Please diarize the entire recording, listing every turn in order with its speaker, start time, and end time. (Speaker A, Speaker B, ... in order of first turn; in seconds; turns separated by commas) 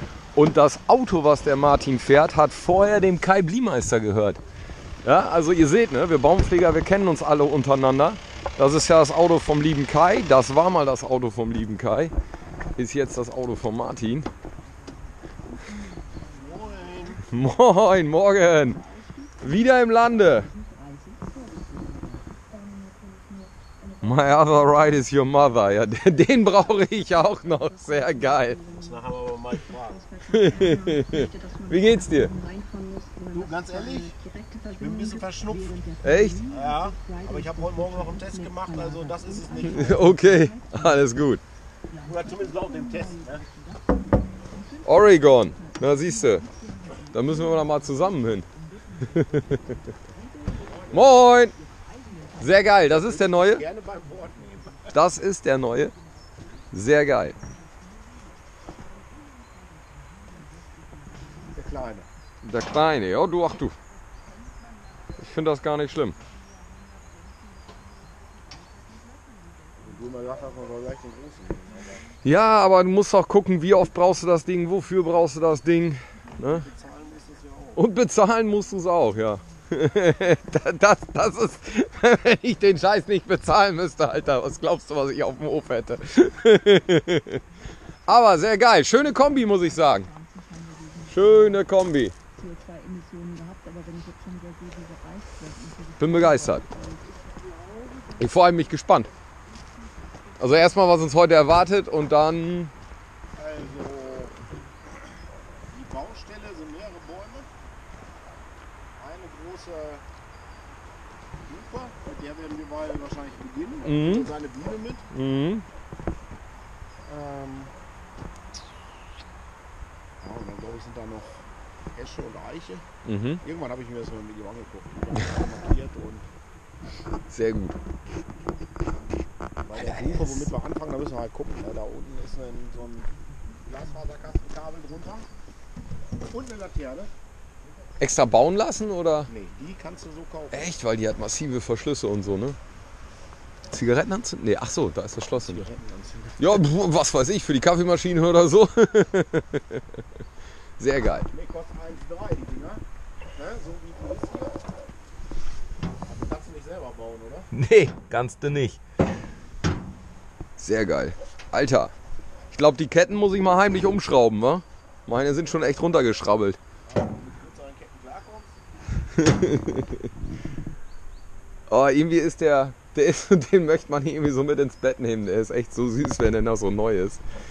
Speaker A: 0.3-4.4, Speaker A: 5.0-12.1, Speaker A: 12.8-14.3, Speaker B: 16.3-17.2, Speaker A: 17.3-18.8, Speaker A: 19.4-20.5, Speaker C: 20.6-22.0, Speaker A: 24.0-28.6, Speaker B: 28.8-30.1, Speaker A: 30.3-32.3, Speaker C: 30.5-31.6, Speaker C: 32.3-33.3, Speaker B: 33.3-34.2, Speaker C: 34.2-34.7, Speaker B: 34.8-35.8, Speaker C: 35.7-37.2, Speaker A: 36.0-36.4, Speaker B: 36.5-40.2, Speaker A: 39.6-41.4, Speaker C: 39.8-40.7, Speaker C: 41.9-43.8, Speaker B: 42.0-43.4, Speaker C: 44.5-45.7, Speaker A: 44.8-46.5, Speaker C: 46.4-47.9, Speaker A: 47.1-48.5, Speaker C: 48.6-49.0, Speaker A: 49.1-49.6, Speaker B: 50.6-51.2, Speaker A: 50.9-51.5, Speaker C: 51.5-52.3, Speaker A: 52.4-53.6, Speaker B: 53.0-55.0, Speaker A: 54.9-55.9, Speaker A: 56.7-57.4, Speaker B: 61.5-62.1, Speaker A: 62.4-63.7, Speaker A: 65.2-66.2, Speaker B: 69.8-72.0, Speaker A: 72.2-76.7, Speaker B: 76.4-77.9, Speaker A: 77.8-87.4, Speaker A: 88.1-90.1, Speaker C: 89.8-91.5, Speaker A: 91.1-92.1, Speaker C: 92.4-97.2, Speaker A: 96.0-96.6, Speaker A: 98.2-99.1, Speaker A: 100.4-102.7, Speaker B: 103.3-104.4, Speaker B: 105.7-107.5, Speaker B: 109.0-110.0, Speaker B: 111.5-115.1, Speaker A: 113.8-114.3, Speaker A: 115.1-115.7, Speaker B: 117.0-117.7, Speaker B: 120.2-122.8, Speaker A: 123.0-123.4, Speaker B: 123.4-126.3, Speaker A: 127.3-127.8, Speaker B: 129.6-133.1, Speaker A: 129.8-130.5, Speaker B: 133.7-135.3, Speaker B: 136.2-137.1, Speaker A: 138.0-139.3, Speaker B: 139.3-140.8, Speaker A: 140.5-142.6, Speaker A: 143.7-145.7, Speaker B: 145.4-146.7, Speaker A: 146.4-149.8, Speaker A: 150.8-151.3, Speaker B: 151.3-152.8, Speaker B: 153.3-154.6, Speaker B: 156.1-157.5, Speaker A: 157.5-158.8, Speaker A: 160.6-161.9, Speaker A: 162.5-166.6, Speaker B: 166.9-168.6, Speaker A: 169.2-170.0, Speaker A: 171.7-177.2